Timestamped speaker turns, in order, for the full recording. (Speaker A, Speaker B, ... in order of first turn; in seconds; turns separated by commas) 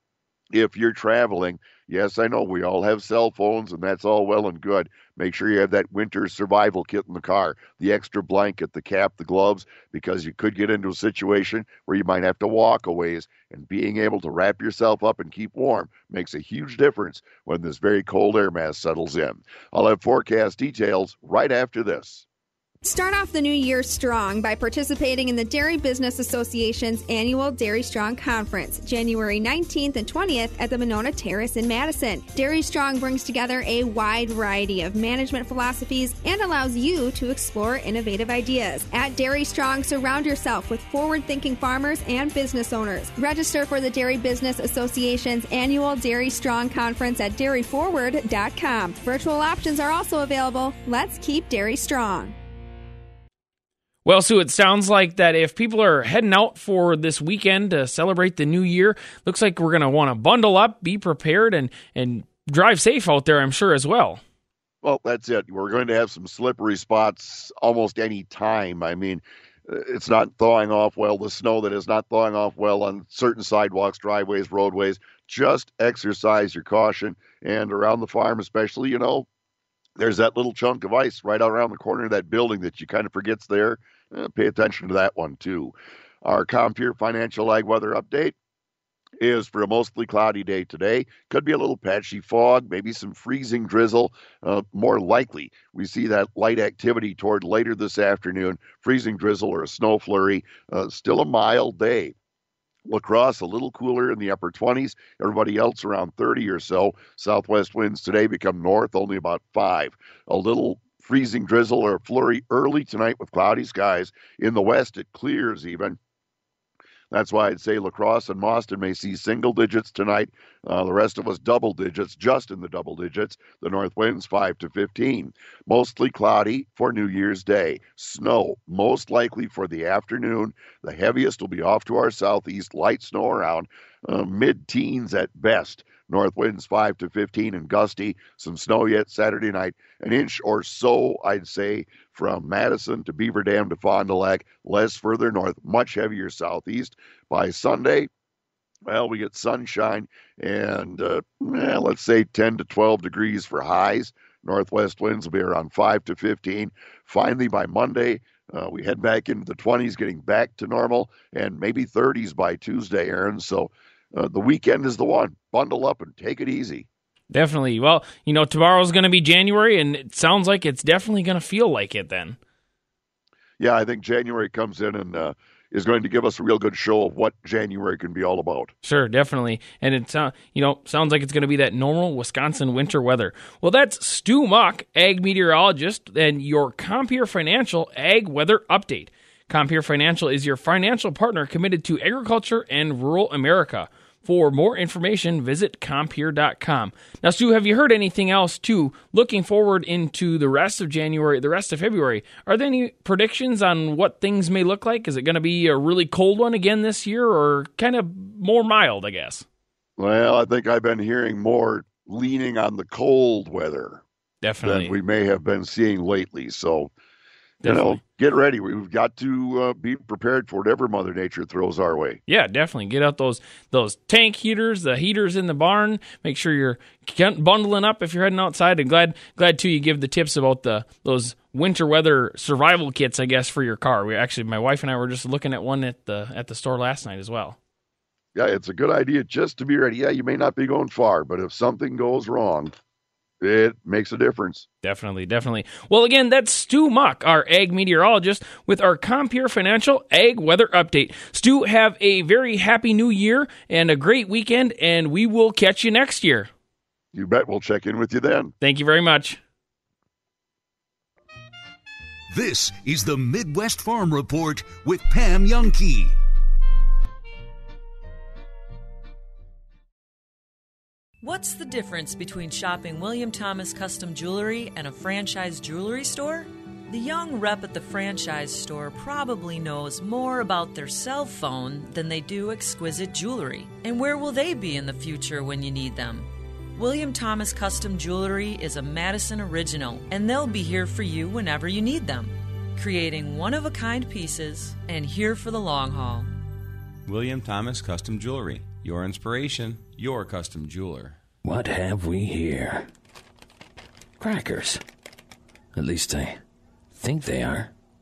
Speaker A: 0.5-22.2, Speaker B: 22.8-52.3, Speaker C: 54.0-64.2, Speaker A: 64.8-79.2, Speaker A: 80.0-85.7, Speaker A: 86.2-88.3, Speaker A: 89.2-102.1, Speaker A: 102.9-116.0, Speaker A: 117.1-148.1, Speaker A: 148.9-166.9, Speaker C: 167.3-172.4, Speaker A: 173.6-178.7, Speaker C: 178.8-209.4, Speaker A: 210.0-214.0, Speaker C: 214.4-215.0, Speaker A: 214.6-216.9, Speaker C: 217.6-218.0, Speaker A: 217.6-222.2, Speaker C: 222.3-237.6, Speaker A: 238.3-242.7, Speaker A: 243.4-244.7, Speaker C: 244.8-256.5, Speaker A: 257.1-258.5, Speaker C: 258.6-259.4, Speaker D: 262.3-266.1, Speaker E: 271.2-296.3, Speaker F: 297.1-301.2, Speaker G: 301.4-302.9, Speaker G: 304.2-304.8, Speaker G: 305.7-306.4, Speaker G: 306.9-307.7